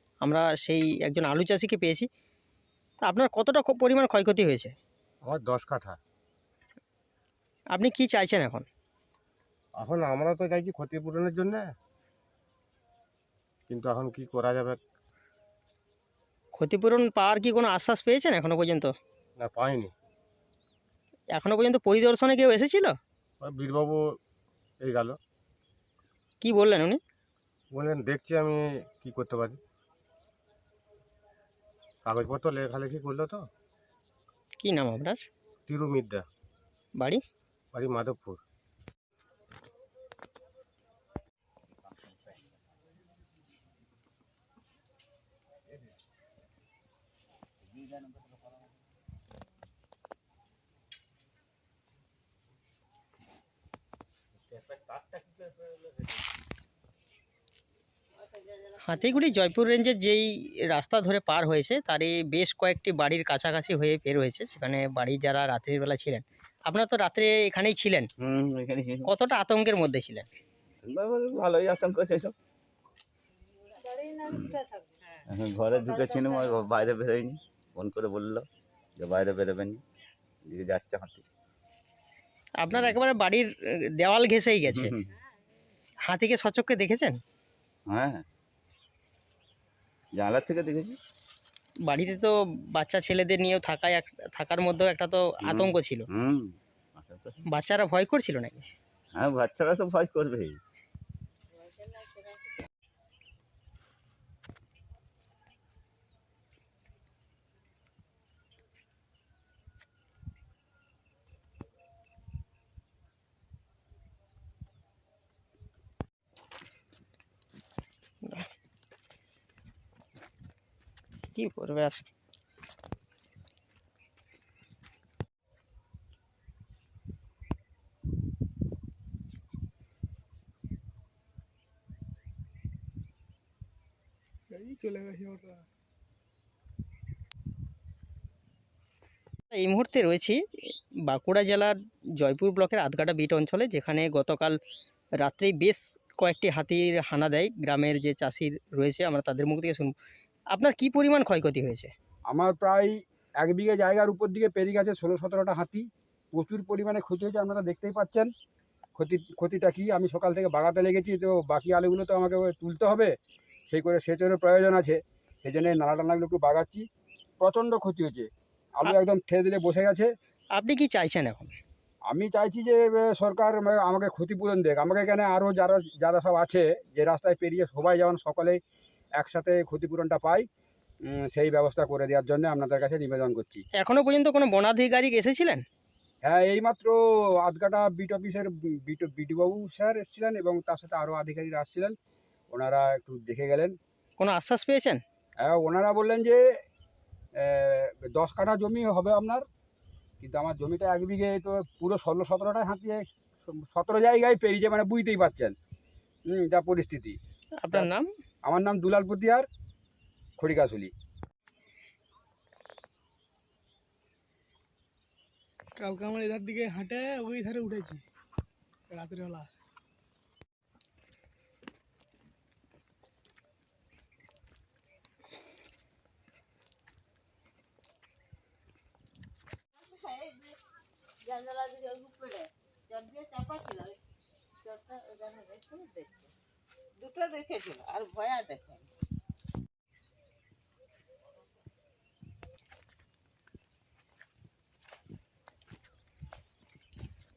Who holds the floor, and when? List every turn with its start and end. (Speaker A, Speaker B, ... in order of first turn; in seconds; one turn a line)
Speaker A: 0.2-2.1
Speaker A: 3.0-4.7
Speaker B: 5.2-6.0
Speaker A: 7.7-8.7
Speaker B: 9.8-11.7
Speaker B: 13.7-14.8
Speaker A: 16.6-18.9
Speaker B: 19.4-19.9
Speaker A: 21.3-22.9
Speaker B: 23.4-24.1
Speaker B: 24.8-25.2
Speaker A: 26.4-27.0
Speaker B: 27.7-29.6
Speaker B: 32.0-33.5
Speaker A: 34.6-35.2
Speaker B: 35.7-36.2
Speaker B: 37.7-38.4
Speaker C: 41.8-42.5
Speaker C: 47.7-48.5
Speaker D: 58.1-59.4
Speaker A: 58.8-68.1
Speaker C: 68.2-69.1
Speaker A: 69.1-70.3
Speaker C: 70.8-72.3
Speaker D: 73.8-74.3
Speaker C: 74.3-74.5
Speaker C: 75.2-79.8
Speaker D: 76.1-76.4
Speaker C: 80.5-81.2
Speaker A: 82.6-83.5
Speaker C: 82.7-83.0
Speaker A: 84.0-84.9
Speaker C: 84.7-85.1
Speaker A: 86.1-87.2
Speaker C: 87.9-88.2
Speaker C: 90.2-91.0
Speaker A: 91.8-96.0
Speaker C: 95.4-97.4
Speaker A: 97.5-98.7
Speaker C: 99.1-100.6
Speaker D: 101.5-102.6
Speaker A: 118.2-118.5
Speaker A: 121.3-122.0
Speaker E: 134.5-135.6
Speaker A: 139.5-144.6
Speaker A: 145.2-149.9
Speaker A: 150.5-151.9
Speaker F: 152.3-158.3
Speaker F: 159.0-163.1
Speaker F: 163.7-166.8
Speaker F: 167.4-170.1
Speaker A: 170.5-171.5
Speaker F: 172.1-178.6
Speaker F: 179.2-180.5
Speaker F: 181.1-183.6
Speaker A: 183.7-185.6
Speaker F: 186.2-191.9
Speaker F: 192.5-193.7
Speaker A: 194.2-195.0
Speaker F: 195.4-196.4
Speaker F: 197.4-199.4
Speaker F: 200.2-205.5
Speaker F: 206.3-207.2
Speaker A: 207.6-208.1
Speaker F: 208.4-209.4
Speaker F: 210.4-210.9
Speaker E: 215.8-218.0
Speaker E: 218.9-219.5
Speaker D: 229.8-230.6
Speaker D: 231.2-234.0
Speaker D: 234.6-236.3
Speaker D: 237.0-238.8